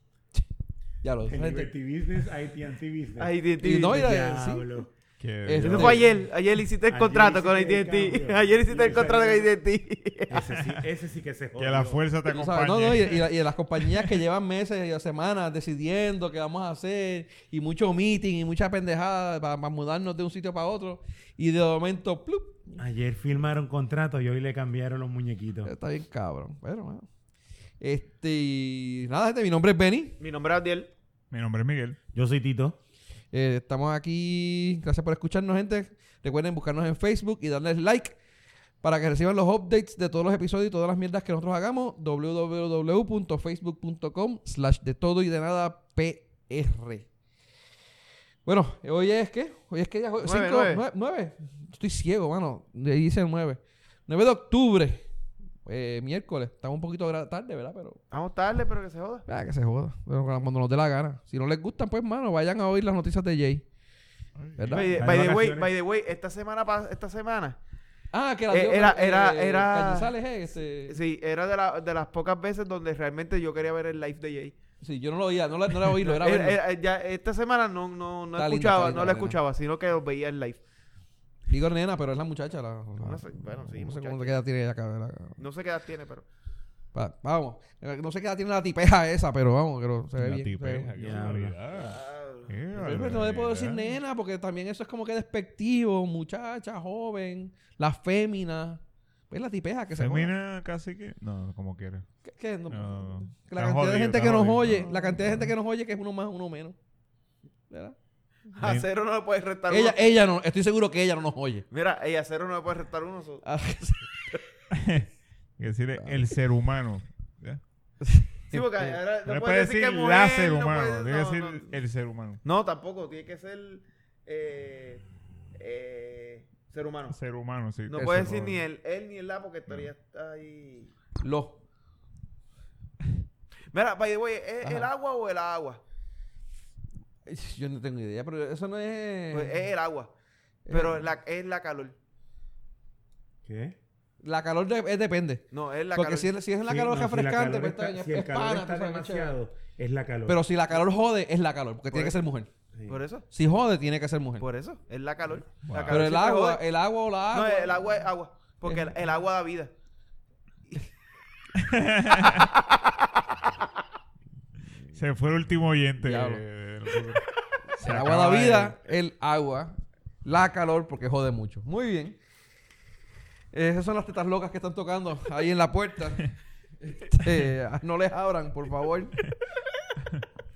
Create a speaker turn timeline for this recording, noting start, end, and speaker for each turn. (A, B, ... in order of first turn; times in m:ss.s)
0:01.0-0:01.7 A
0:01.2-0:04.9 B
0:03.2-0:04.2 C
0:03.6-0:04.6 A
0:05.2-0:05.8 D
0:05.4-0:06.0 A
0:05.6-0:06.2 B
0:05.6-0:10.6 C
0:06.8-0:09.5 B
0:10.3-0:12.0 B
0:11.6-0:14.1 D
0:12.2-0:22.6 A
0:22.7-0:25.7 B
0:25.6-0:27.1 A
0:27.8-0:30.2 A
0:30.2-0:30.9 C
0:31.3-0:32.0 D
0:32.1-0:32.8 B
0:33.3-0:38.2 A
0:38.8-0:47.1 A
0:48.4-0:55.0 A
0:50.2-0:50.8 C
0:55.6-0:58.0 A
0:58.1-0:59.2 C
0:59.3-1:03.6 A
1:04.4-1:04.9 D
1:04.6-1:05.1 A
1:04.7-1:07.6 C
1:04.9-1:05.7 B
1:08.1-1:11.0 A
1:08.5-1:10.2 C
1:10.8-1:14.6 C
1:14.8-1:16.6 A
1:15.8-1:20.6 C
1:18.3-1:19.4 A
1:21.5-1:25.4 A
1:23.0-1:24.4 C
1:25.4-1:26.2 C
1:26.9-1:30.9 A
1:30.2-1:33.9 D
1:31.0-1:31.6 B
1:31.7-1:32.5 C
1:32.7-1:40.3 A
1:39.9-1:42.1 D
1:42.2-1:46.8 A
1:42.7-1:45.5 D
1:47.7-1:48.0 A
1:48.5-1:50.2 C
1:48.6-1:48.8 D
1:49.7-1:51.7 A
1:51.7-1:53.4 C
1:53.4-1:54.1 A
1:54.7-1:57.6 D
1:56.0-1:56.3 A
1:58.0-1:59.0 A
1:58.5-2:01.7 C
1:59.2-2:02.4 D
2:02.4-2:05.0 C
2:05.5-2:07.2 C
2:07.1-2:08.6 D
2:07.9-2:10.9 C
2:07.9-2:08.4 A
2:11.2-2:11.6 A
2:13.7-2:15.8 C
2:14.6-2:14.9 A
2:17.2-2:19.6 A
2:19.3-2:20.1 C
2:20.6-2:21.0 A
2:20.7-2:21.9 C
2:23.4-2:23.8 B
2:24.2-2:29.4 A
2:25.5-2:26.3 C
2:26.6-2:30.4 B
2:30.3-2:32.5 A
2:32.7-2:33.0 B
2:32.9-2:33.3 C
2:33.3-2:34.4 A
2:34.4-2:36.6 C
2:35.6-2:36.0 D
2:35.9-2:38.0 A
2:37.3-2:39.7 C
2:41.6-2:42.5 D
2:42.2-2:43.0 C
2:44.9-2:47.2 D
2:46.0-2:46.4 A
2:47.8-2:52.2 A
2:47.8-2:48.8 D
2:53.5-2:59.2 A